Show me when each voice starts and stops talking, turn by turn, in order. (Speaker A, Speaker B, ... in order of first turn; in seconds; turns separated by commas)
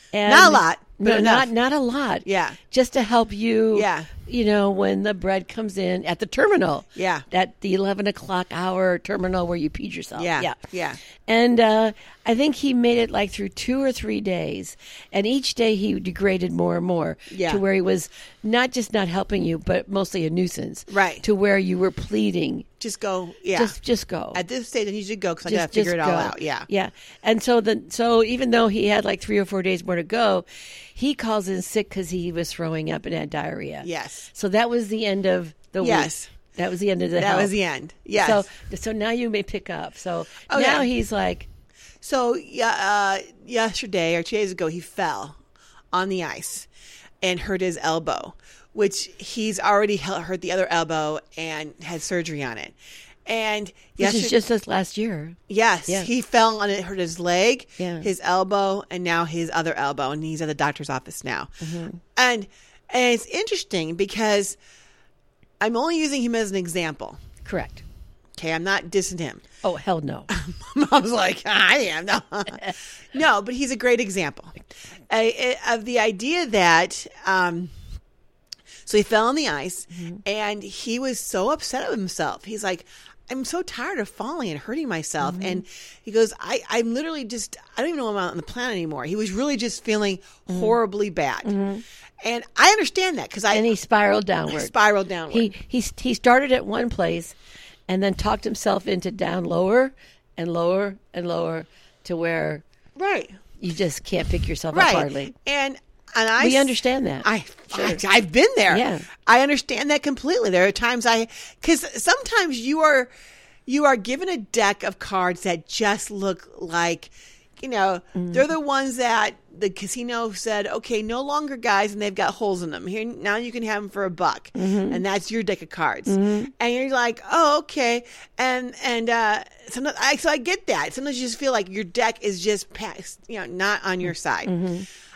Speaker A: 0.1-10.6, Speaker B: 0.2-1.5, Speaker B: 2.3-2.6, Speaker B: 3.7-4.1, Speaker B: 7.0-7.3, Speaker B: 10.2-11.0, Speaker A: 11.3-22.7, Speaker B: 17.3-17.6, Speaker B: 20.9-21.2, Speaker B: 22.8-23.8, Speaker A: 23.6-24.4, Speaker B: 24.3-26.7, Speaker A: 25.5-37.5, Speaker B: 33.8-34.3, Speaker B: 35.8-36.3, Speaker B: 37.2-38.5, Speaker A: 38.2-41.5, Speaker B: 40.5-40.9, Speaker B: 42.0-45.4, Speaker B: 45.9-46.7, Speaker B: 47.2-52.8, Speaker B: 53.3-54.4, Speaker A: 54.0-56.1, Speaker B: 55.5-61.5, Speaker A: 57.8-58.1, Speaker A: 61.6-62.0, Speaker B: 62.1-64.6, Speaker B: 65.6-67.2, Speaker A: 67.4-67.8, Speaker B: 68.4-69.4, Speaker A: 69.6-70.3, Speaker B: 70.3-74.6, Speaker B: 75.1-77.7, Speaker B: 78.9-91.5, Speaker A: 80.0-80.2, Speaker A: 85.2-85.6, Speaker A: 91.4-91.8, Speaker B: 92.2-93.7, Speaker A: 93.5-94.7, Speaker B: 94.5-95.5, Speaker A: 95.3-97.3, Speaker A: 97.9-102.6, Speaker B: 103.0-103.4, Speaker A: 103.6-105.3, Speaker B: 104.7-113.1, Speaker A: 106.4-108.0, Speaker A: 108.7-109.1, Speaker B: 113.7-134.5, Speaker A: 118.2-118.4, Speaker A: 124.6-125.0, Speaker A: 126.1-126.5, Speaker A: 134.4-134.9